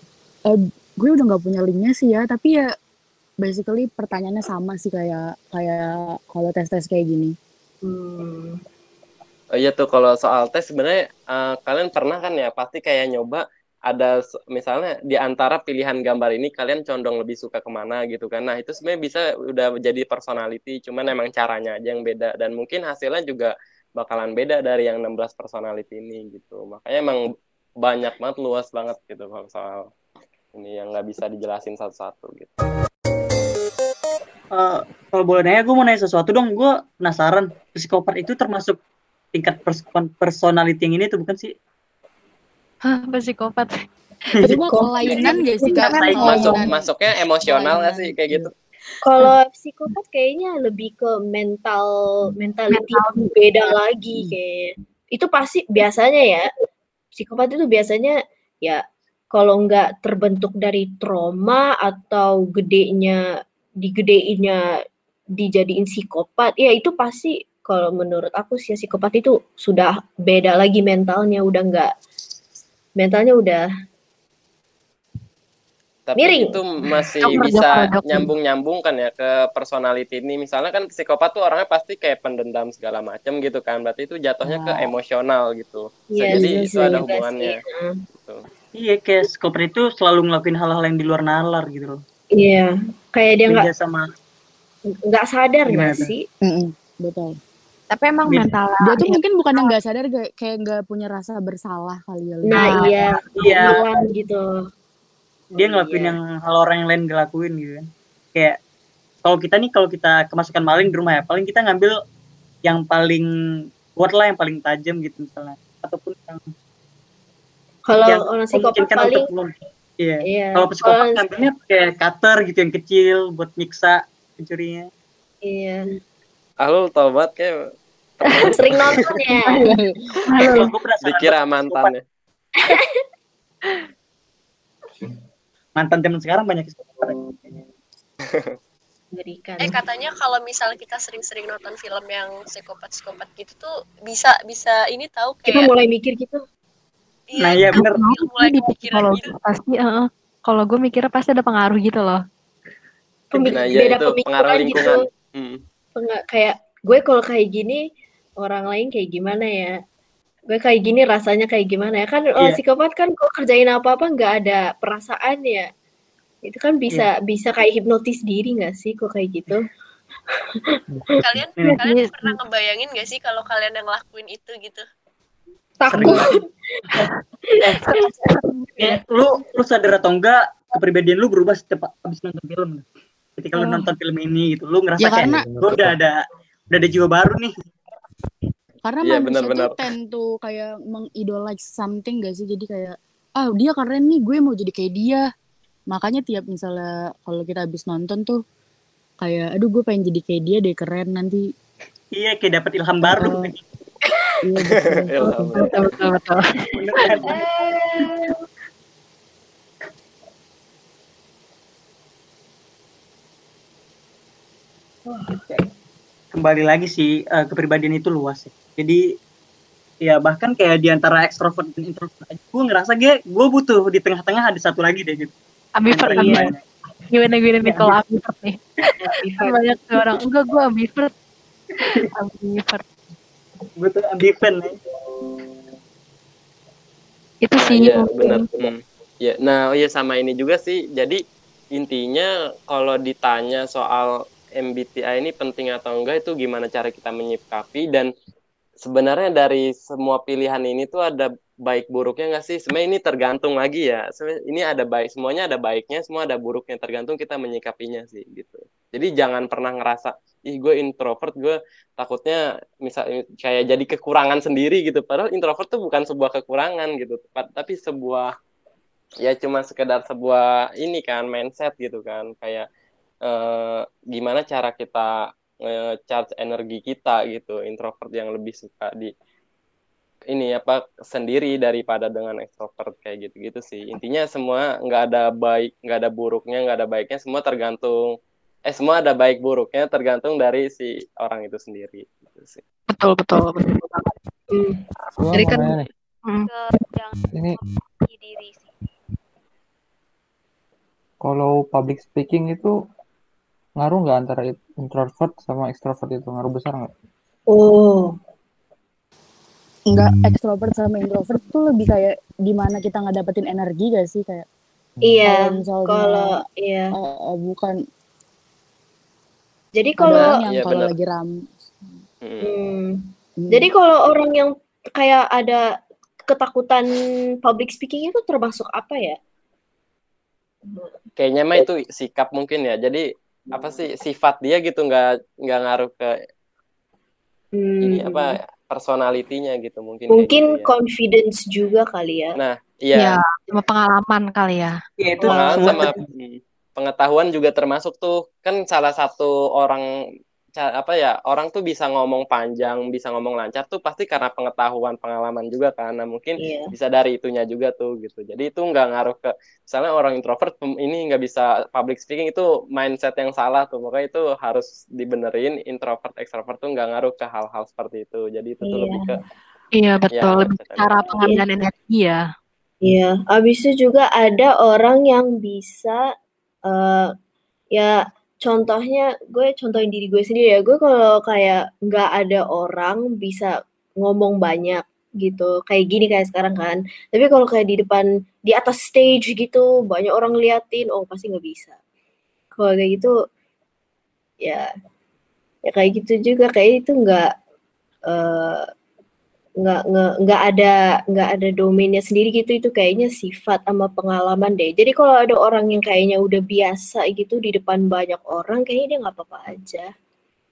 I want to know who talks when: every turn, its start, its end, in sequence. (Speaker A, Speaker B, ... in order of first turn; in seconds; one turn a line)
Speaker A: 0.5-2.7
Speaker A: 3.4-7.3
Speaker B: 7.8-8.6
Speaker C: 9.5-27.2
Speaker C: 27.8-29.9
Speaker C: 30.5-32.5
Speaker D: 34.5-38.8
Speaker D: 39.3-41.5
Speaker E: 42.8-43.7
Speaker A: 44.4-46.8
Speaker D: 45.1-46.5
Speaker B: 45.1-45.7
Speaker E: 45.1-46.6
Speaker C: 46.2-48.5
Speaker A: 47.4-48.5
Speaker B: 49.0-56.5
Speaker E: 52.7-53.7
Speaker B: 57.1-63.2
Speaker B: 63.8-64.7
Speaker B: 65.3-71.9
Speaker B: 73.0-73.6
Speaker C: 76.1-87.6
Speaker B: 76.2-77.4
Speaker E: 77.3-78.3
Speaker A: 84.4-84.9
Speaker B: 86.1-88.0
Speaker A: 86.3-86.7
Speaker C: 88.1-88.4
Speaker D: 88.7-92.0
Speaker B: 92.3-93.7
Speaker D: 93.5-94.0
Speaker B: 95.1-96.2
Speaker D: 95.7-96.1
Speaker A: 96.4-97.3
Speaker E: 97.9-99.7
Speaker A: 98.8-103.0
Speaker B: 102.5-104.7
Speaker E: 102.5-102.9
Speaker D: 103.4-103.8
Speaker D: 105.5-108.6
Speaker B: 105.6-106.1
Speaker D: 109.2-111.9
Speaker D: 112.6-113.2
Speaker D: 114.0-116.5
Speaker B: 117.8-119.3
Speaker D: 118.0-124.8
Speaker B: 120.3-121.3
Speaker B: 125.4-125.9
Speaker C: 126.6-127.6
Speaker C: 128.4-129.1
Speaker B: 128.5-129.8
Speaker A: 129.7-130.1
Speaker E: 130.3-130.7
Speaker D: 130.4-131.9
Speaker C: 131.0-132.0
Speaker D: 135.8-137.5
Speaker C: 138.3-138.5
Speaker B: 139.1-139.8
Speaker F: 139.6-145.7
Speaker B: 145.5-146.4
Speaker F: 147.3-149.3
Speaker D: 147.4-148.0
Speaker E: 147.7-152.2
Speaker B: 153.3-155.1
Speaker C: 153.5-155.6
Speaker B: 155.9-157.8
Speaker B: 158.4-159.7
Speaker B: 160.5-165.7
Speaker D: 162.3-162.6
Speaker B: 166.4-169.7
Speaker F: 171.2-174.8
Speaker E: 171.6-172.4
Speaker B: 175.9-176.3
Speaker D: 175.9-176.3
Speaker E: 177.8-179.0
Speaker D: 178.8-182.8
Speaker D: 183.4-186.2
Speaker A: 185.0-185.5
Speaker G: 185.2-185.9
Speaker D: 186.7-187.5
Speaker A: 188.8-195.2
Speaker C: 189.0-189.7
Speaker A: 195.9-198.4
Speaker A: 199.2-201.4
Speaker D: 202.1-203.6
Speaker A: 203.0-203.5
Speaker A: 204.4-205.7
Speaker C: 204.7-205.9
Speaker E: 205.2-206.4
Speaker D: 206.8-207.5
Speaker B: 207.2-208.3
Speaker D: 215.3-215.6
Speaker D: 216.3-219.0
Speaker D: 220.0-225.3
Speaker E: 225.8-226.5
Speaker D: 225.9-226.6
Speaker B: 226.1-226.5
Speaker E: 227.1-228.6
Speaker D: 227.7-227.9
Speaker B: 229.0-229.6
Speaker E: 229.4-231.1
Speaker E: 232.1-232.8
Speaker D: 233.8-234.7
Speaker E: 237.4-238.5
Speaker C: 237.6-241.2
Speaker C: 241.8-248.1
Speaker C: 248.8-268.3
Speaker C: 269.2-272.6
Speaker C: 273.3-275.1
Speaker C: 275.6-279.1
Speaker C: 280.3-288.1
Speaker C: 288.7-292.6
Speaker E: 292.9-294.1
Speaker B: 294.5-294.8
Speaker G: 295.1-295.9
Speaker E: 295.3-296.5
Speaker H: 296.5-298.8
Speaker G: 297.3-297.6
Speaker G: 301.2-302.7
Speaker G: 303.8-306.9
Speaker B: 307.5-308.1
Speaker A: 309.9-314.4
Speaker B: 315.0-316.9
Speaker A: 315.3-316.4
Speaker A: 316.9-317.7
Speaker B: 319.8-320.4
Speaker A: 320.0-321.3
Speaker C: 320.1-320.9
Speaker C: 322.2-322.5
Speaker B: 322.4-325.6
Speaker A: 323.4-323.7
Speaker B: 326.3-329.2
Speaker B: 330.7-330.9
Speaker C: 331.2-336.1
Speaker B: 337.6-338.4
Speaker C: 337.8-340.7
Speaker B: 340.1-342.4
Speaker C: 342.4-343.2
Speaker E: 342.9-344.7
Speaker D: 345.0-346.0
Speaker B: 345.2-345.9
Speaker C: 345.3-349.8
Speaker C: 350.6-369.2
Speaker B: 356.4-356.7
Speaker B: 368.6-369.1
Speaker E: 369.8-372.2
Speaker C: 370.1-371.1
Speaker B: 372.8-376.0
Speaker B: 376.7-377.1
Speaker B: 377.7-391.8
Speaker B: 392.6-393.1
Speaker B: 395.7-397.3
Speaker B: 398.1-398.6
Speaker B: 399.6-409.9